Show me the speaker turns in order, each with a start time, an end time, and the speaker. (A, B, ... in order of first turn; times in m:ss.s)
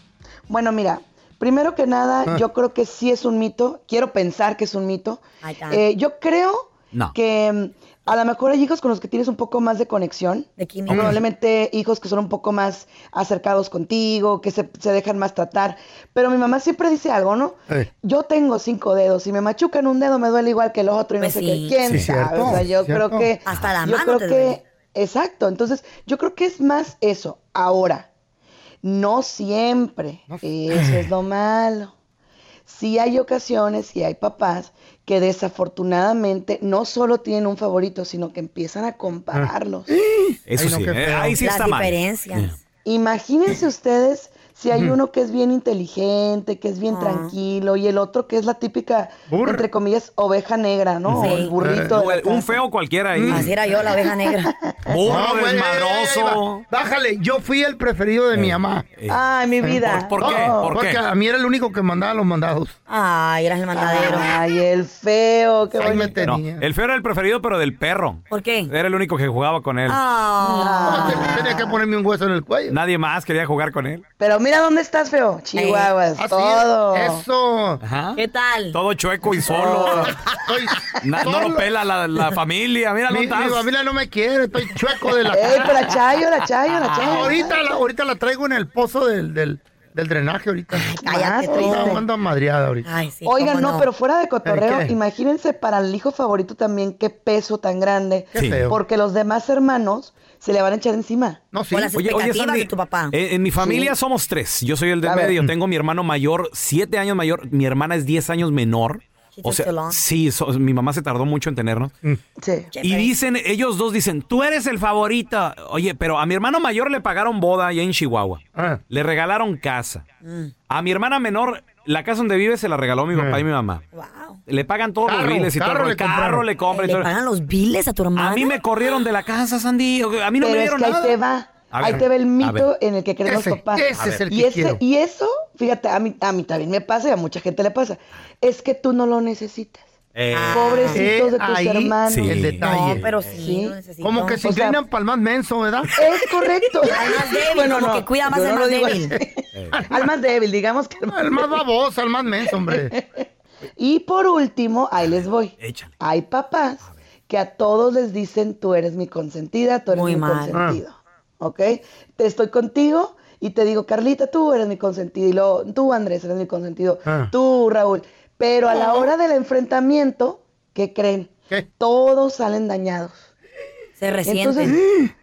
0:00.5-0:28.1 A
0:05.4-0:05.8 B
0:10.6-0:11.2 B
0:10.9-0:11.2 C
0:21.2-0:21.8 B
0:21.9-0:23.3 C
0:23.4-0:24.6 B
0:28.8-0:31.9 A
0:30.3-0:31.1 C
0:32.6-0:39.9 A
0:39.3-0:41.4 C
0:40.5-0:42.5 D
0:41.4-0:42.5 B
0:42.8-0:52.5 A
0:46.9-0:47.3 B
0:49.3-0:49.6 C
0:51.2-0:51.5 B
0:51.3-0:51.9 C
0:51.9-0:53.5 D
0:53.1-0:53.5 C
0:53.3-0:54.5 B
0:53.8-0:54.8 A
0:54.9-0:56.6 D
0:55.0-0:58.9 C
0:58.3-0:59.2 D
0:59.1-1:00.7 A
0:59.6-1:02.7 C
0:59.8-1:01.0 D
1:02.9-1:04.3 B
1:03.7-1:06.2 A
1:05.7-1:06.6 C
1:06.2-1:10.0 D
1:08.3-1:08.7 B
1:09.9-1:11.4 B
1:10.4-1:11.6 A
1:10.8-1:12.8 C
1:12.7-1:14.0 D
1:14.2-1:17.2 A
1:15.5-1:15.9 B
1:16.2-1:17.8 C
1:17.8-1:18.2 D
1:18.2-1:18.8 B
1:18.7-1:20.1 D
1:19.5-1:20.0 A
1:19.8-1:21.6 C
1:21.0-1:23.6 D
1:23.1-1:25.9 C
1:25.3-1:27.6 A
1:27.0-1:32.8 C
1:30.7-1:32.0 B
1:31.0-1:32.0 A
1:32.8-1:33.9 B
1:33.2-1:41.4 A
1:34.4-1:35.0 C
1:38.3-1:38.8 C
1:38.4-1:38.6 D
1:41.5-1:41.9 C
1:41.7-1:43.1 B
1:42.0-1:51.9 D
1:43.6-1:43.9 A
1:45.0-1:45.3 A
1:49.4-1:50.0 B
1:52.4-1:52.7 A
1:52.7-1:53.1 B
1:52.8-2:00.0 D
1:58.5-1:58.8 C
2:00.2-2:00.5 B
2:00.7-2:03.8 D
2:03.1-2:03.4 C
2:03.9-2:04.4 B
2:04.5-2:07.1 D
2:05.0-2:06.4 C
2:06.7-2:08.5 B
2:08.2-2:11.2 D
2:10.4-2:19.9 A
2:11.7-2:12.7 D
2:13.2-2:14.8 C
2:14.0-2:14.2 D
2:20.1-2:20.8 D
2:20.3-2:21.0 B
2:20.5-2:22.3 A
2:20.9-2:23.0 C
2:22.1-2:23.4 D
2:22.6-2:24.4 B
2:23.4-2:23.8 A
2:24.0-2:25.9 C
2:24.4-2:24.8 A
2:26.0-2:31.6 A
2:26.9-2:29.2 B
2:29.7-2:30.1 C
2:31.1-2:32.9 C
2:32.5-2:33.2 A
2:33.8-2:53.3 A
2:35.6-2:35.9 D
2:39.9-2:40.6 B
2:40.5-2:40.8 C
2:47.0-2:47.3 C
2:54.0-2:54.8 B
2:54.2-2:54.8 A
2:54.7-2:55.1 C